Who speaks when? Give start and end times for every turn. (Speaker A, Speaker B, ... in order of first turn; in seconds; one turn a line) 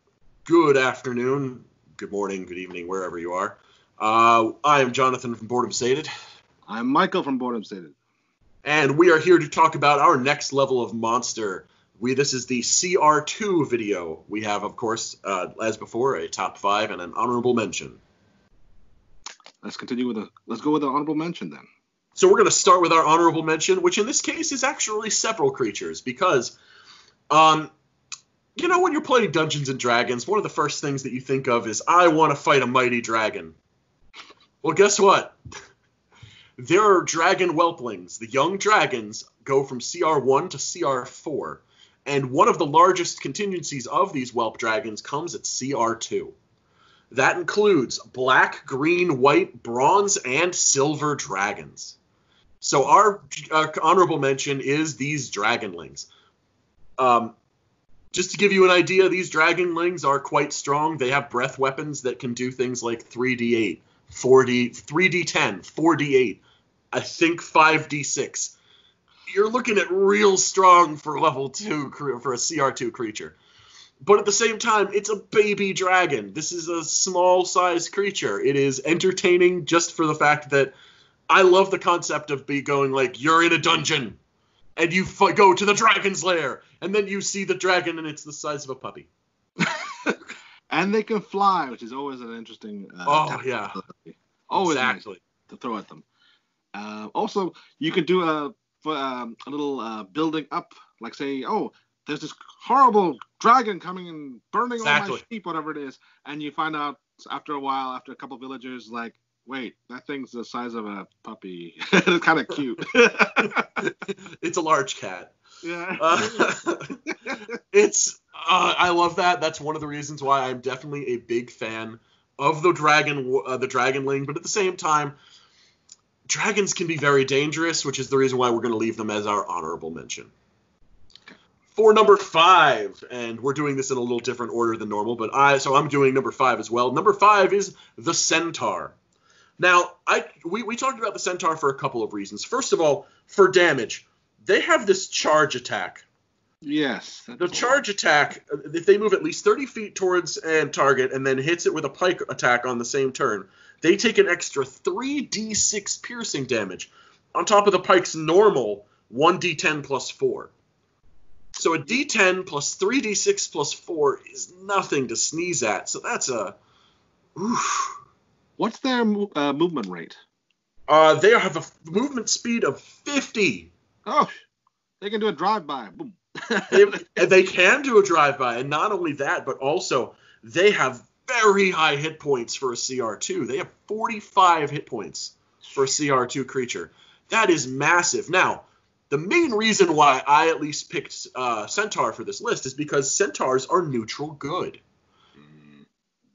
Speaker A: 0.5-6.1
Speaker B: 6.7-8.0
Speaker A: 8.6-18.0
Speaker B: 19.6-21.7
Speaker A: 22.2-26.6
Speaker A: 27.3-27.7
Speaker A: 28.6-33.6
Speaker A: 34.6-35.4
Speaker A: 36.6-46.4
Speaker A: 47.1-52.0
Speaker A: 52.6-56.1
Speaker A: 57.0-57.3
Speaker A: 58.1-66.4
Speaker A: 66.9-68.6
Speaker A: 69.3-73.4
Speaker A: 74.0-80.8
Speaker A: 81.3-84.2
Speaker A: 84.8-89.1
Speaker B: 89.6-90.2
Speaker B: 90.7-96.0
Speaker A: 93.1-93.8
Speaker A: 94.5-95.2
Speaker B: 96.8-113.7
Speaker A: 104.8-105.2
Speaker A: 113.4-115.4
Speaker B: 115.6-116.5
Speaker A: 116.0-125.2
Speaker A: 126.3-130.3
Speaker A: 131.8-139.0
Speaker A: 139.6-146.1
Speaker B: 146.6-147.8
Speaker A: 147.4-160.5
Speaker A: 161.6-166.6
Speaker A: 167.4-168.0
Speaker B: 168.6-170.2
Speaker A: 170.9-173.7
Speaker B: 174.1-174.3
Speaker B: 175.0-177.1
Speaker A: 176.7-194.8
Speaker B: 195.4-195.8